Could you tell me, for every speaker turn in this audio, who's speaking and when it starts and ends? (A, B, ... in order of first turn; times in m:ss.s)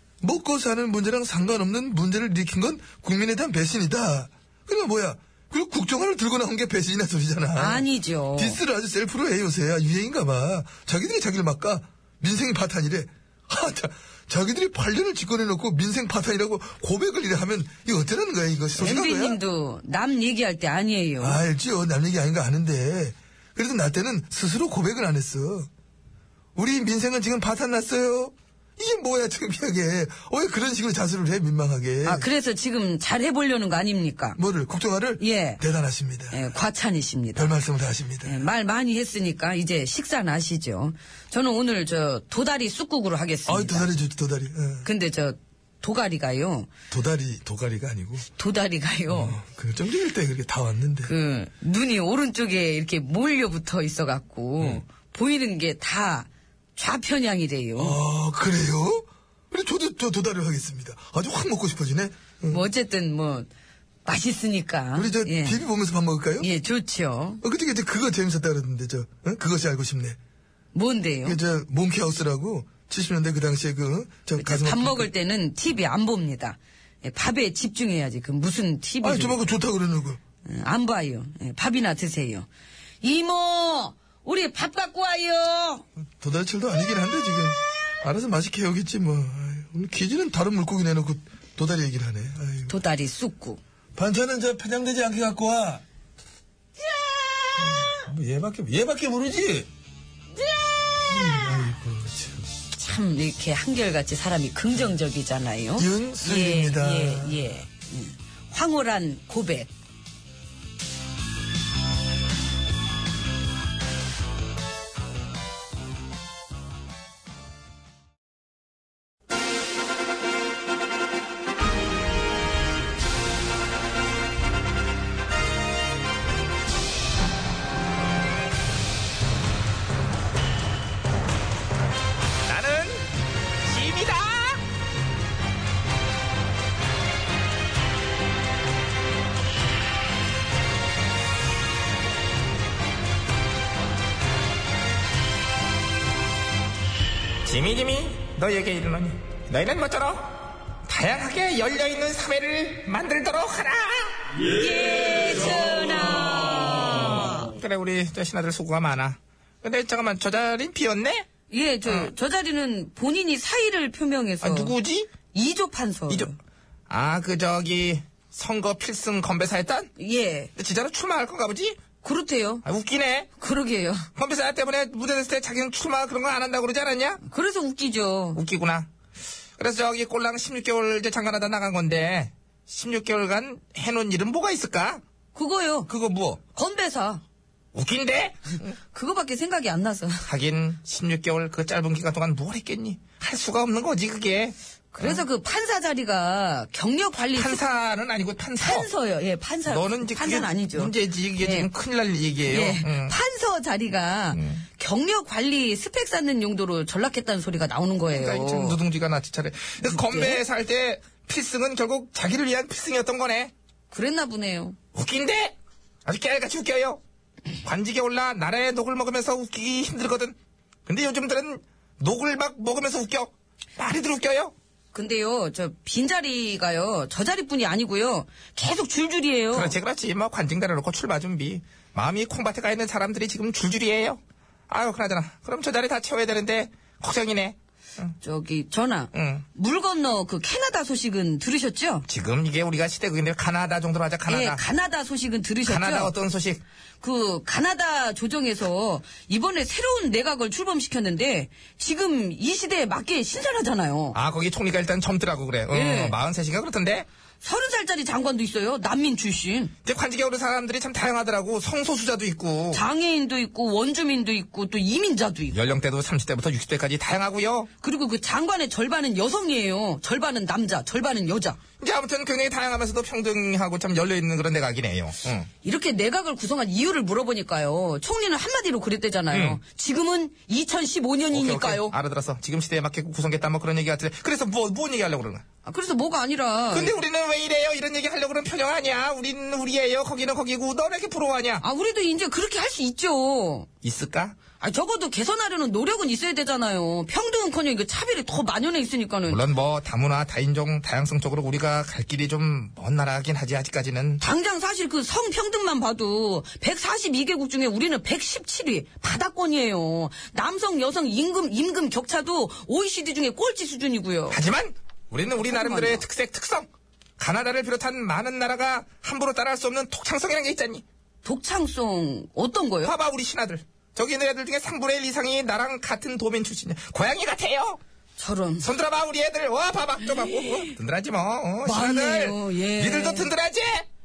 0:00.2-0:07.8 A
0:07.5-0:08.6 B
0:08.4-0:19.4 A
0:18.7-0:21.4 B
0:21.2-0:25.7 A
0:26.6-0:32.2 A
0:32.0-0:34.4 B
0:34.4-0:36.5 A
0:35.2-0:35.6 B
0:36.3-0:37.6 B
0:37.4-0:38.4 A
0:38.2-0:43.9 B
0:43.4-0:44.9 A
0:44.8-0:46.7 B
0:46.9-0:48.3 A
0:48.4-0:49.4 B
0:49.1-0:51.1 A
0:51.0-0:58.0 B
0:57.8-1:02.6 A
1:02.5-1:03.5 B
1:04.0-1:05.6 B
1:05.0-1:06.5 A
1:06.4-1:07.4 B
1:07.4-1:10.2 A
1:10.7-1:11.4 B
1:11.2-1:15.1 A
1:14.4-1:19.4 B
1:19.0-1:20.2 A
1:20.4-1:22.5 B
1:23.0-1:25.8 B
1:26.2-1:32.7 A
1:32.7-1:33.6 B
1:33.9-1:35.8 A
1:37.0-1:38.0 B
1:37.6-1:39.7 A
1:40.4-1:41.7 B
1:41.1-1:42.5 A
1:42.7-1:49.7 B
1:45.8-1:47.5 A
2:12.4-2:13.1 C
2:13.6-2:14.6 C
2:27.4-2:34.2 C
2:34.5-2:37.5 B
2:37.0-2:41.3 C
2:41.5-2:44.7 B
2:41.8-2:42.1 C
2:44.4-2:45.1 C
2:45.3-2:46.4 B
2:46.9-2:49.9 C
2:50.0-2:50.5 B
2:50.6-2:51.8 C
2:52.0-2:52.6 B
2:52.6-2:53.3 C
2:53.4-2:54.1 B
2:54.2-2:57.2 C
2:57.2-2:58.4 B
2:58.3-2:58.9 C
2:59.6-3:05.0 C
3:05.3-3:05.9 B
3:05.9-3:06.4 C
3:06.5-3:07.2 B
3:07.7-3:08.7 C
3:08.9-3:10.3 B
3:10.2-3:15.2 C
3:14.9-3:17.6 B
3:17.3-3:18.9 C
3:18.6-3:21.7 B
3:19.7-3:23.2 C
3:22.4-3:28.8 B
3:24.3-3:24.6 C
3:28.1-3:33.5 C
3:29.8-3:30.4 B
3:33.9-3:34.8 B
3:34.9-3:37.0 C
3:37.6-3:44.5 C
3:44.9-3:49.8 B
3:49.5-3:58.1 C
3:58.2-4:02.0 B
3:59.1-3:59.4 C
4:02.1-4:04.6 C
4:04.3-4:06.1 B
4:05.6-4:06.6 C
4:07.0-4:14.2 B
4:14.1-4:17.1 C
4:15.7-4:16.2 B
4:17.4-4:19.7 B
4:19.8-4:22.8 C
4:22.7-4:25.6 B
4:25.5-4:27.7 C
4:27.8-4:31.6 B
4:31.8-4:35.5 C
4:35.6-4:41.9 B
4:39.3-4:39.6 C
4:41.3-4:45.4 C
4:45.6-4:46.9 B
4:46.7-4:51.6 C
4:51.6-4:53.7 B
4:53.8-4:54.4 C
4:54.6-4:59.4 B
4:59.3-5:04.2 C
5:04.2-5:14.4 B
5:14.3-5:20.8 C
5:15.4-5:16.0 B
5:21.2-5:22.9 B
5:22.8-5:27.8 C
5:28.2-5:28.6 B
5:28.6-5:33.9 C
5:31.6-5:33.3 B